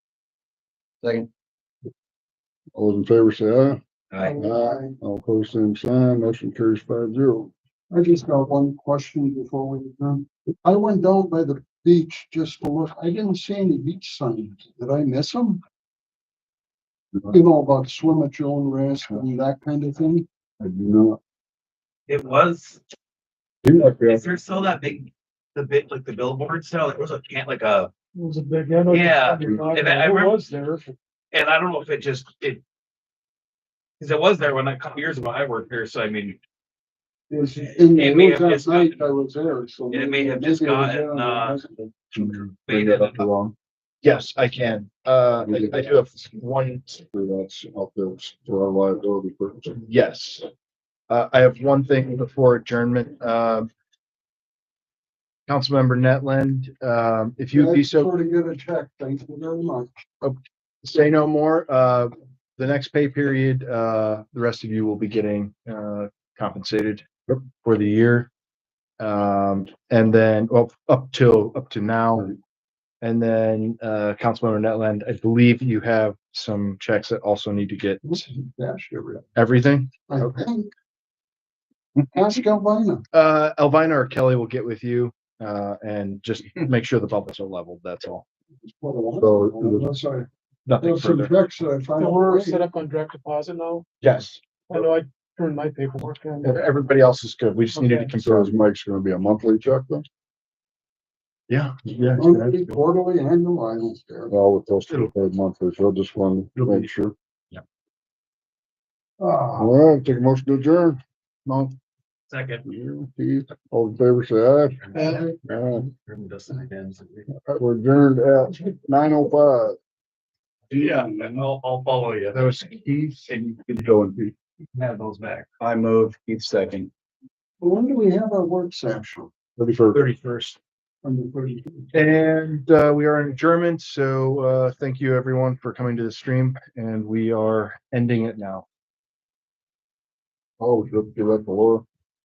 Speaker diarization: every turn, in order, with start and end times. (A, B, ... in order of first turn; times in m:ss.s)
0:02.7-0:03.8 A
0:04.3-0:07.5 A
0:04.4-0:04.9 B
0:07.9-0:15.6 B
0:17.3-0:20.2 B
0:20.6-0:21.2 A
0:22.1-0:22.8 C
0:23.6-0:24.2 A
0:23.8-0:27.9 C
0:28.1-0:30.9 D
0:28.9-0:30.4 C
0:31.3-0:32.6 C
0:34.0-0:36.4 C
0:37.3-0:42.4 B
0:37.9-0:39.0 C
0:39.9-0:41.6 C
0:42.1-0:43.5 A
0:42.6-0:43.3 C
0:44.0-0:47.0 E
0:45.4-0:46.2 A
0:47.1-0:49.8 A
0:49.8-0:50.4 E
0:51.1-0:53.7 E
0:55.5-0:58.1 E
0:57.5-0:59.9 B
1:00.2-1:08.3 E
1:09.0-1:12.3 E
1:13.0-1:18.2 E
1:18.0-1:19.2 B
1:19.4-1:20.4 E
1:20.1-1:20.7 B
1:22.0-1:23.0 B
1:23.1-1:28.2 E
1:28.6-1:30.3 B
1:29.2-1:29.9 A
1:30.6-1:31.3 E
1:30.8-1:32.6 B
1:32.0-1:33.8 D
1:34.0-1:34.8 E
1:34.7-1:36.6 D
1:36.4-1:38.6 E
1:37.7-1:38.1 D
1:38.2-1:40.0 A
1:41.5-1:42.7 E
1:42.2-1:44.3 B
1:44.3-1:47.1 A
1:46.6-1:46.9 E
1:49.2-1:49.8 B
1:49.6-1:51.7 A
1:52.3-1:52.6 C
1:52.6-1:55.9 A
1:55.9-1:57.2 C
1:57.5-1:59.8 A
2:00.7-2:02.7 C
2:00.8-2:01.2 F
2:02.3-2:03.2 E
2:03.3-2:03.8 C
2:03.3-2:04.3 F
2:04.7-2:05.6 C
2:05.6-2:06.9 F
2:07.6-2:09.3 B
2:09.6-2:10.6 E
2:11.0-2:11.9 B
2:11.9-2:18.6 E
2:20.6-2:21.8 A